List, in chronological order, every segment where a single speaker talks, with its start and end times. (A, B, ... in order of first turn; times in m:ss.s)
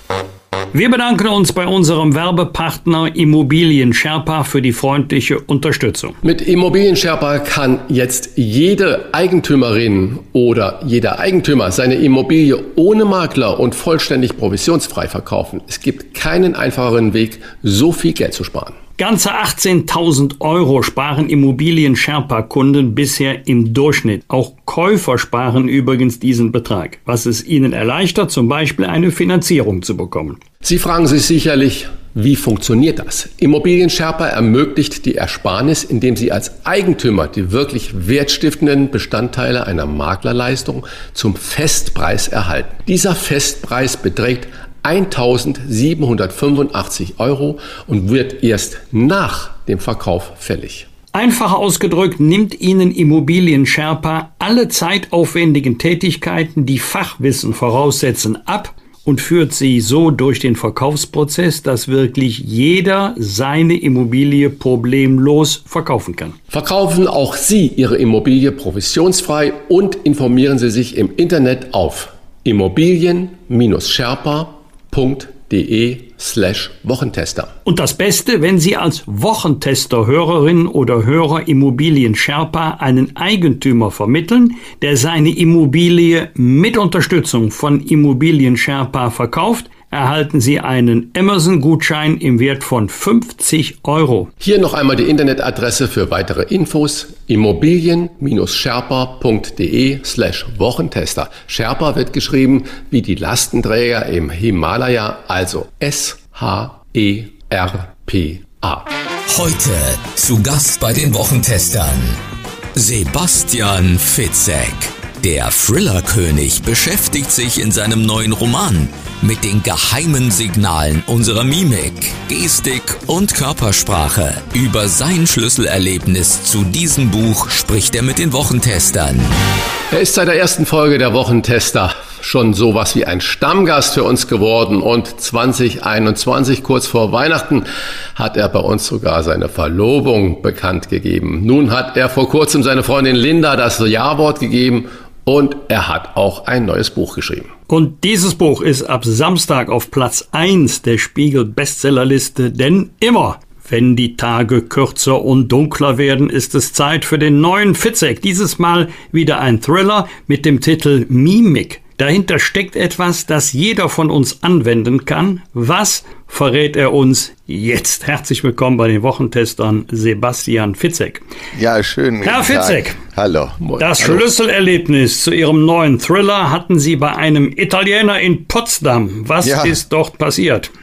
0:00.7-0:06.2 A
0:06.2-0:18.8 B
0:19.0-0:30.4 A
0:30.6-0:50.9 B
0:51.1-1:06.4 A
1:06.5-1:17.5 B
1:17.6-1:34.3 A
1:34.4-1:48.9 B
1:49.3-1:52.2 C
1:52.8-2:09.4 C
2:09.9-2:27.5 B
2:27.7-2:51.2 A
2:51.5-2:53.6 D
2:52.2-2:53.0 A
2:53.6-2:54.2 B
2:53.8-3:00.7 A
2:59.4-2:59.8 D